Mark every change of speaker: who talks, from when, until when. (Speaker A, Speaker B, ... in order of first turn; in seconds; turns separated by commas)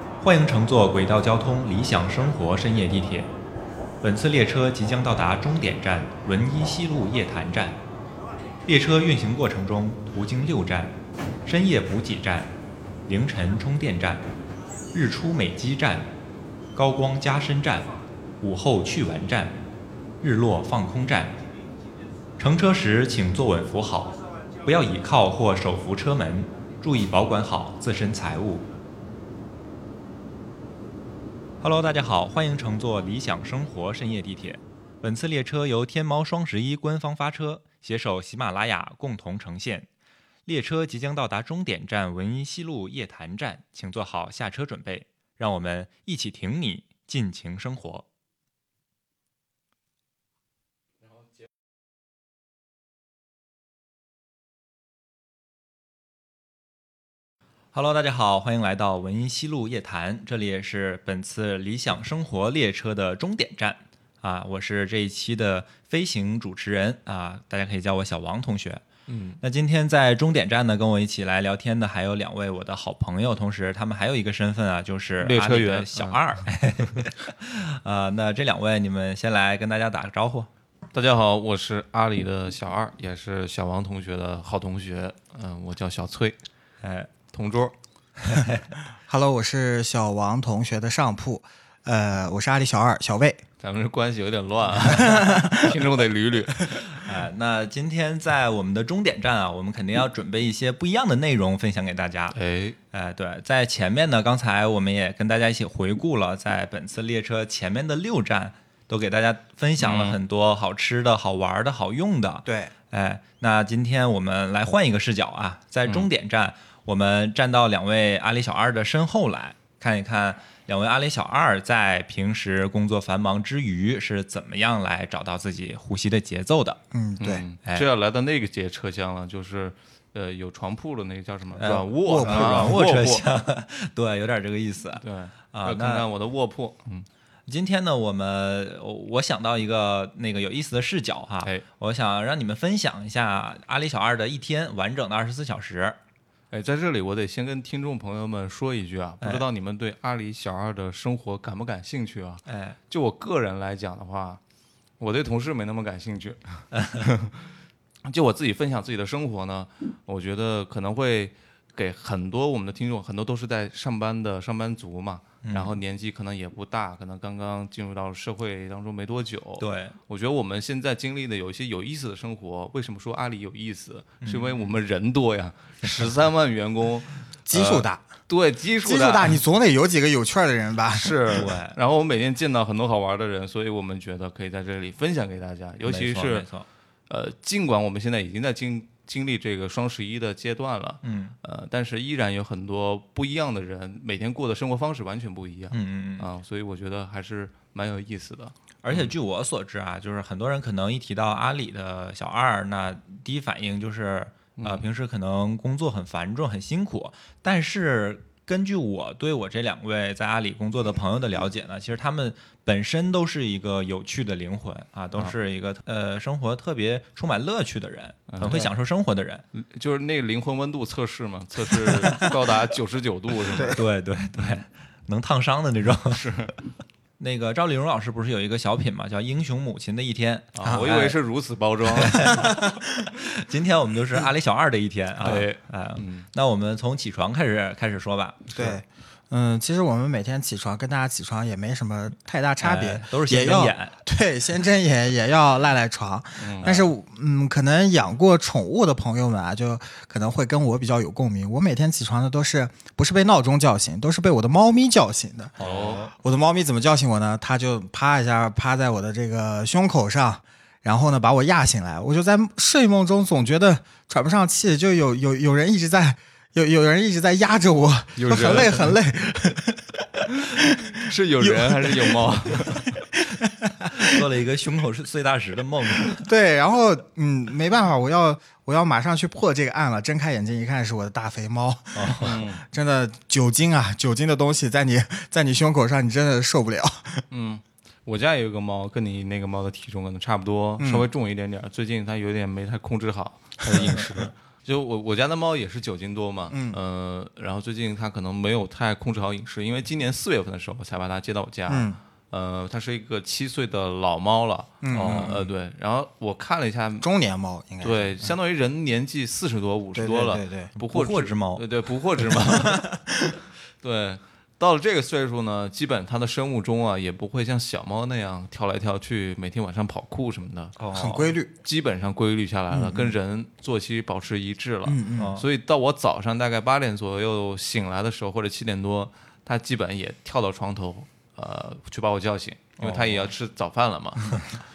Speaker A: 0.2-3.3, Speaker A: 4.0-7.8, Speaker A: 8.7-10.9, Speaker A: 11.4-12.5, Speaker A: 13.1-14.3, Speaker A: 14.9-16.1, Speaker A: 16.7-19.6, Speaker A: 20.2-21.4, Speaker A: 22.4-28.6, Speaker A: 31.6-39.9, Speaker A: 40.5-48.0, Speaker A: 57.7-68.8, Speaker B: 69.1-69.4, Speaker A: 69.4-80.5, Speaker B: 75.2-76.2, Speaker B: 80.9-86.4, Speaker A: 86.8-87.1, Speaker B: 87.3-87.7, Speaker A: 88.2-88.7, Speaker C: 89.1-93.4, Speaker B: 93.6-96.9, Speaker C: 94.8-95.8, Speaker A: 97.0-102.3, Speaker B: 102.3-102.8, Speaker A: 102.9-126.8, Speaker B: 109.8-110.2, Speaker C: 112.4-112.7, Speaker C: 126.9-127.4, Speaker B: 127.2-133.3, Speaker A: 131.6-136.1, Speaker C: 132.0-132.8, Speaker B: 135.0-137.1, Speaker A: 137.5-146.0, Speaker B: 146.5-154.4, Speaker A: 152.5-152.8, Speaker B: 155.0-157.5, Speaker A: 156.7-157.1, Speaker B: 158.0-179.4, Speaker A: 165.4-165.8, Speaker A: 169.6-169.9, Speaker A: 174.2-174.7, Speaker C: 177.5-178.1, Speaker C: 178.8-181.4, Speaker B: 180.9-186.5, Speaker A: 181.4-181.8, Speaker A: 185.8-186.7, Speaker B: 187.1-199.1, Speaker A: 191.0-191.3, Speaker A: 195.7-196.3, Speaker A: 198.8-219.4, Speaker B: 204.6-204.8, Speaker B: 218.3-218.7, Speaker B: 219.5-223.8, Speaker A: 221.7-222.3, Speaker C: 223.5-223.8, Speaker A: 223.7-226.2, Speaker B: 226.1-226.5, Speaker A: 227.2-231.2, Speaker B: 230.6-232.4, Speaker C: 230.6-230.9, Speaker A: 231.9-232.6, Speaker C: 232.2-232.8, Speaker A: 233.2-238.8, Speaker B: 235.2-236.2, Speaker C: 238.5-274.2, Speaker A: 242.6-243.9, Speaker B: 246.4-246.8, Speaker A: 255.6-256.1, Speaker B: 255.6-256.1, Speaker B: 268.2-268.9, Speaker B: 271.0-273.0, Speaker A: 274.0-276.2, Speaker C: 276.1-287.2, Speaker A: 281.9-282.4, Speaker B: 282.2-282.6, Speaker B: 287.3-307.1, Speaker C: 290.8-291.1, Speaker A: 293.7-294.3, Speaker C: 296.5-296.8, Speaker C: 301.7-302.0, Speaker C: 304.8-305.4, Speaker A: 304.9-305.5, Speaker C: 307.0-308.3, Speaker B: 307.8-312.8, Speaker C: 309.9-310.7, Speaker A: 310.8-311.6, Speaker C: 312.5-313.4, Speaker B: 313.8-320.7, Speaker A: 320.8-321.3, Speaker C: 320.9-321.5, Speaker B: 321.6-334.4, Speaker C: 322.7-323.1, Speaker C: 324.9-325.4, Speaker A: 325.2-325.4, Speaker A: 332.8-333.3